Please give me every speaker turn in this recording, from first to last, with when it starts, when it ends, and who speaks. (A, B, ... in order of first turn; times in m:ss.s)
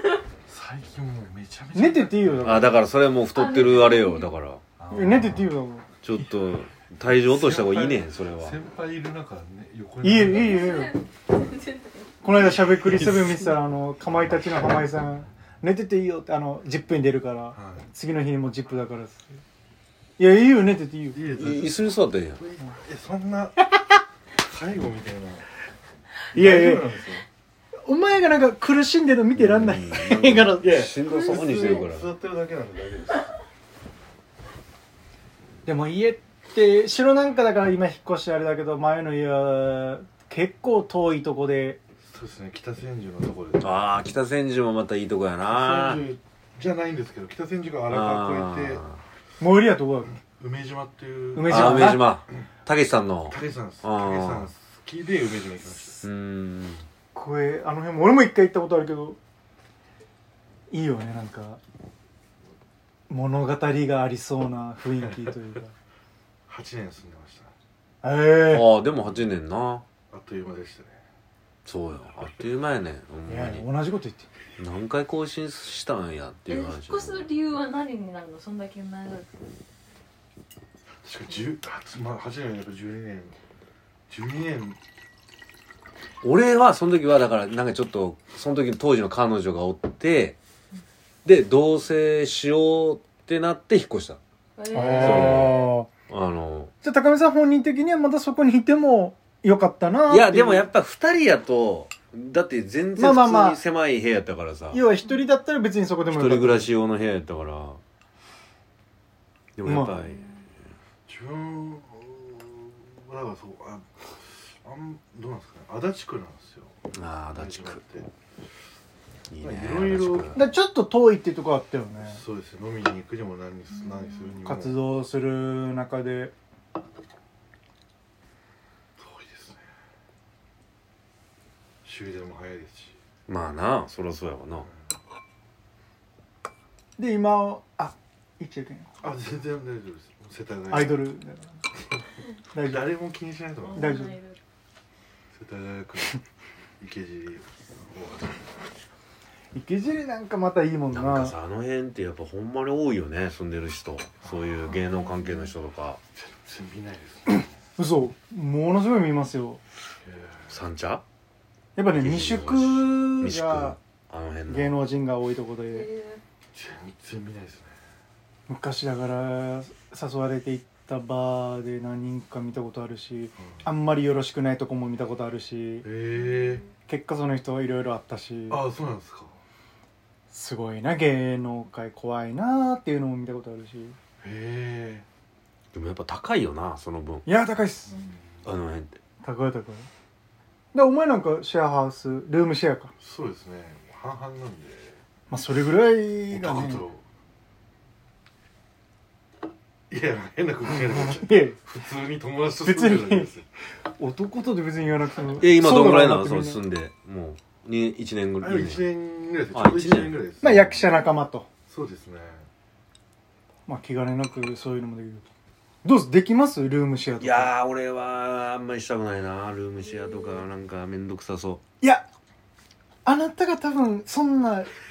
0:00.4-0:02.8 A
0:01.7-0:02.8 B
0:02.4-0:04.6 C
0:03.3-0:04.3 D
0:04.8-0:05.5 A
0:04.9-0:05.8 B
0:06.0-0:08.6 C
0:07.2-0:10.7 A
0:10.0-0:11.0 B
0:10.3-0:12.1 D
0:12.2-0:19.4 B
0:12.6-0:13.2 A
0:17.5-0:17.8 A
0:20.2-0:21.2 B
0:21.1-0:23.7 A
0:21.3-0:22.4 C
0:24.4-0:25.5 A
0:26.3-0:27.2 A
0:26.3-0:26.9 B
0:27.8-0:30.9 B
0:29.3-0:32.1 C
0:30.6-0:33.3 A
0:31.1-0:31.8 D
0:35.6-0:41.8 B
0:42.1-0:43.7 A
0:43.6-0:46.0 C
0:45.4-0:48.8 A
0:47.9-0:49.0 C
0:49.4-0:50.2 B
0:50.2-0:52.1 A
0:51.3-0:52.1 B
0:51.4-0:54.5 C
0:53.3-0:56.0 A
0:56.0-0:56.8 C
0:57.1-0:59.2 B
1:00.7-1:01.6 B
1:03.1-1:05.7 B
1:06.5-1:07.5 A
1:08.0-1:08.7 B
1:08.5-1:09.8 C
1:10.1-1:11.0 A
1:11.6-1:13.7 C
1:13.3-1:14.3 B
1:14.6-1:17.3 C
1:16.5-1:19.3 D
1:21.0-1:23.4 A
1:24.1-1:24.8 A
1:26.2-1:30.4 C
1:31.2-1:34.2 C
1:34.6-1:35.6 D
1:34.7-1:35.9 B
1:34.8-1:36.7 C
1:36.8-1:40.7 B
1:40.1-1:44.8 C
1:43.0-1:43.6 B
1:44.7-1:46.7 B
1:46.1-1:47.8 C
1:49.6-1:50.3 C
1:49.6-1:50.0 B
1:51.1-1:54.1 A
1:54.6-1:56.8 A
1:56.9-1:57.8 C
1:57.3-1:58.1 A
1:59.3-2:00.4 C
1:59.4-2:00.4 A
2:00.3-2:02.2 B
2:02.0-2:04.8 A
2:03.8-2:04.2 D
2:04.4-2:06.3 B
2:09.0-2:09.6 A
2:11.8-2:13.0 A
2:13.3-2:14.7 C
2:17.0-2:18.9 B
2:19.0-2:21.0 A
2:20.7-2:21.6 B
2:22.5-2:22.9 B
2:22.6-2:24.1 A
2:23.6-2:24.4 D
2:23.8-2:24.2 B
2:25.3-2:26.2 A
2:26.8-2:28.5 A
2:29.5-2:31.4 B
2:30.9-2:36.0 C
2:34.2-2:34.8 A
2:36.2-2:37.5 A
2:37.3-2:39.6 B
2:40.0-2:40.5 A
2:40.5-2:41.0 C
2:41.8-2:43.8 B
2:41.9-2:44.8 C
2:44.5-2:45.9 B
2:45.7-2:46.2 D
2:46.5-2:47.7 A
2:48.5-2:55.9 B
2:55.8-2:56.6 A
2:56.1-2:56.6 D
2:56.9-2:58.6 B
2:58.5-2:59.4 A
3:00.3-3:04.0 B
3:04.2-3:05.0 A
3:05.7-3:07.2 C
3:07.2-3:07.9 B
3:08.4-3:09.0 C
3:09.2-3:09.9 B
3:10.7-3:12.9 B
3:13.0-3:15.0 A
3:15.3-3:16.8 B
3:16.3-3:17.0 A
3:19.9-3:23.4 A
3:20.7-3:21.6 B
3:22.6-3:23.3 B
3:23.8-3:26.6 B
3:25.4-3:28.8 C
3:28.4-3:30.8 A
3:29.5-3:30.1 C
3:30.4-3:31.5 B
3:31.7-3:32.5 A
3:33.7-3:35.3 B
3:35.8-3:37.5 B
3:37.2-3:41.6 C
3:41.8-3:42.0 B
3:43.0-3:44.7 B